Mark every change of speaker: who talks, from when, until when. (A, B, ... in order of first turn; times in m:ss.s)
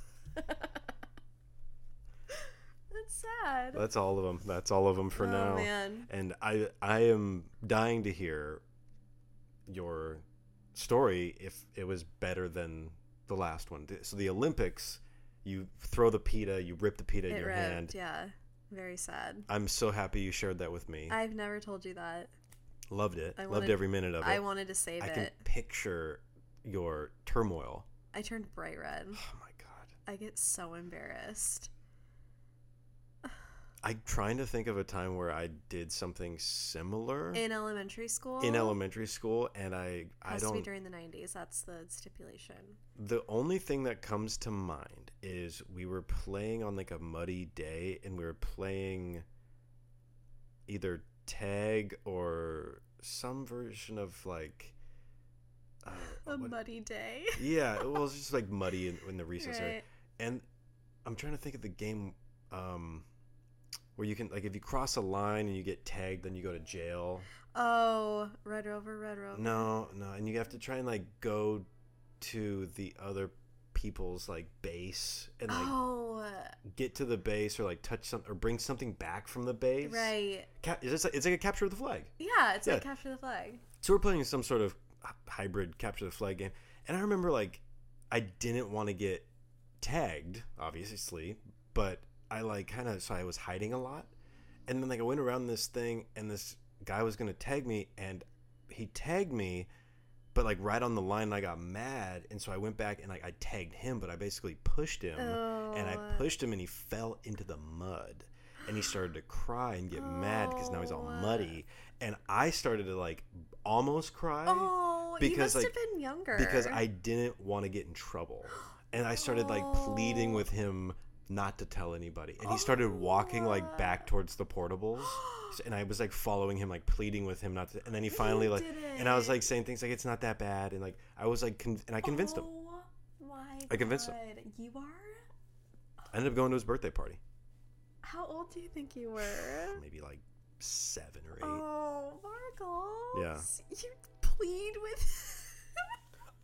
0:00.4-0:00.7 A
0:02.9-0:03.8 A
0:03.7-0:08.6 B
0:05.2-0:06.1 A
0:09.7-0:17.9 B
0:17.3-0:19.5 A
0:19.5-0:21.2 B
0:21.1-0:22.3 A
0:22.9-0:24.4 B
0:23.4-0:25.4 A
0:25.0-0:27.9 B
0:28.1-0:29.2 A
0:29.2-0:29.9 B
0:30.1-0:31.7 A
0:33.8-0:37.4 B
0:37.3-0:38.8 A
0:38.4-0:40.7 B
0:40.3-0:42.8 A
0:43.0-0:49.2 B
0:50.7-0:54.8 B
0:55.8-0:56.6 B
0:56.2-0:58.0 A
0:57.4-1:00.4 B
0:59.4-0:59.8 A
1:01.0-1:03.1 B
1:04.0-1:07.3 B
1:07.5-1:09.7 A
1:09.4-1:11.7 B
1:12.2-1:15.8 B
1:15.5-1:16.6 A
1:16.6-1:22.1 B
1:19.8-1:20.5 A
1:22.2-1:23.6 A
1:23.8-1:29.3 B
1:29.8-1:34.1 B
1:34.7-1:39.7 B
1:40.3-1:55.8 B
1:45.2-1:46.3 A
1:49.9-1:51.6 A
1:54.5-1:56.8 A
1:56.3-2:12.5 B
1:59.2-2:00.5 A
2:02.4-2:04.1 A
2:05.0-2:05.6 A
2:08.1-2:09.5 A
2:12.0-2:15.2 A
2:13.7-2:14.2 B
2:16.1-2:17.2 B
2:18.0-2:19.8 A
2:19.2-2:21.6 B
2:21.4-2:25.8 A
2:23.1-2:23.5 B